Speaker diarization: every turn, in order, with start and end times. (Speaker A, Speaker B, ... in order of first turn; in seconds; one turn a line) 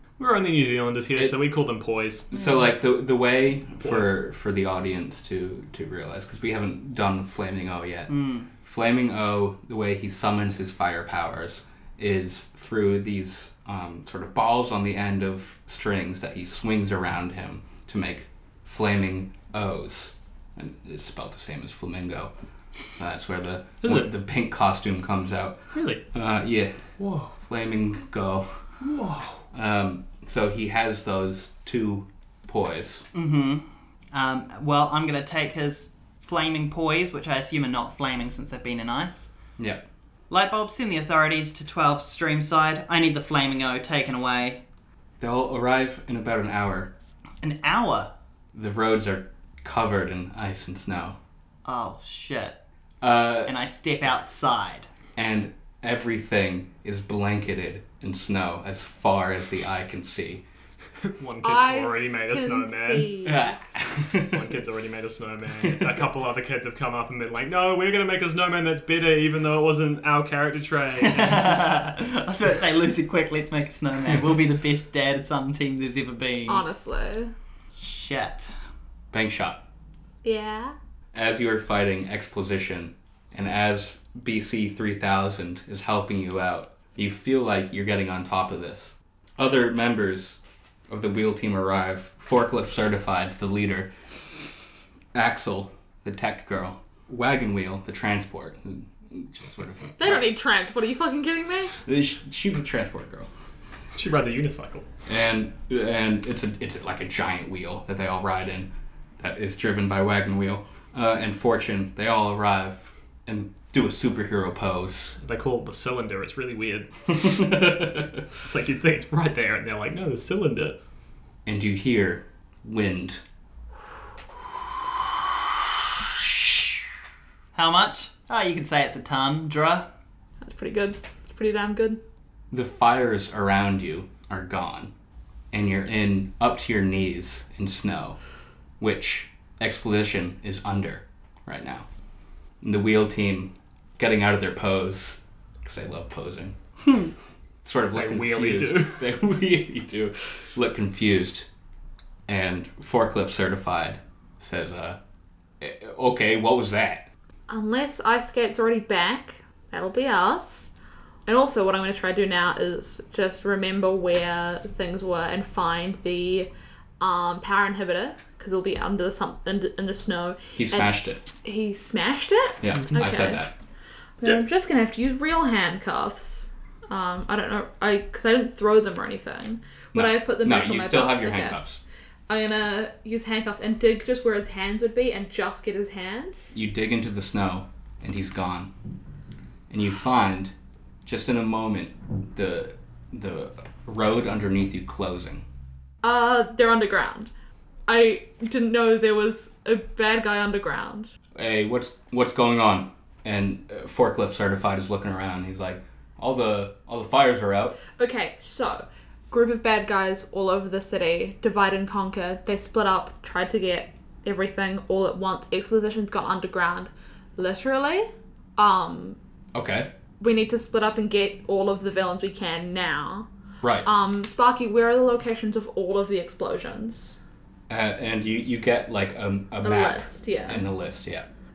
Speaker A: 0.2-2.3
Speaker B: 2.3-22.3
Speaker C: 8.1-8.5
Speaker B: 22.9-26.8
Speaker A: 23.8-24.1
Speaker A: 25.7-26.0
Speaker A: 27.0-27.3
Speaker B: 27.4-28.6
Speaker A: 28.8-29.4
Speaker B: 29.5-33.1
Speaker C: 33.1-39.3
Speaker B: 39.6-39.8
Speaker C: 40.3-44.6
Speaker B: 45.2-46.9
Speaker C: 47.4-48.1
Speaker B: 48.5-51.2
Speaker C: 51.6-52.6
Speaker B: 53.0-53.5
Speaker C: 53.5-54.9
Speaker B: 55.1-60.4
Speaker A: 61.1-63.1
Speaker D: 61.4-63.6
Speaker B: 63.2-64.4
Speaker A: 64.2-71.7
Speaker C: 71.0-76.6
Speaker D: 76.5-77.3
Speaker C: 77.8-78.5
Speaker B: 79.1-79.6
Speaker D: 80.2-80.7
Speaker B: 81.1-93.9
Speaker B: 95.1-100.3
Speaker D: 100.0-101.8
Speaker B: 101.8-103.3
Speaker A: 103.9-104.8
Speaker B: 105.0-115.1
Speaker A: 115.2-117.8
Speaker B: 117.2-118.1
Speaker A: 118.4-120.8
Speaker B: 121.5-123.2
Speaker C: 127.5-129.9
Speaker D: 130.4-132.0
Speaker B: 132.5-134.9
Speaker B: 135.5-138.2
Speaker B: 138.8-141.8
Speaker B: 142.6-146.6
Speaker B: 147.6-151.5
Speaker A: 147.9-149.0
Speaker B: 152.3-155.0
Speaker B: 155.6-157.1
Speaker D: 157.5-160.7
Speaker D: 161.2-173.4
Speaker B: 170.5-171.2
Speaker B: 172.6-173.5
Speaker D: 174.2-181.6
Speaker B: 179.9-181.8
Speaker D: 182.3-186.5
Speaker B: 186.5-188.7
Speaker B: 189.7-190.5
Speaker B: 191.0-195.4
Speaker D: 196.0-197.3
Speaker D: 197.9-201.1
Speaker B: 201.3-207.8
Speaker D: 208.0-219.2
Speaker B: 219.5-219.9
Speaker D: 220.2-223.3
Speaker B: 223.6-223.9
Speaker D: 223.8-227.2
Speaker B: 227.7-231.3
Speaker D: 229.6-230.7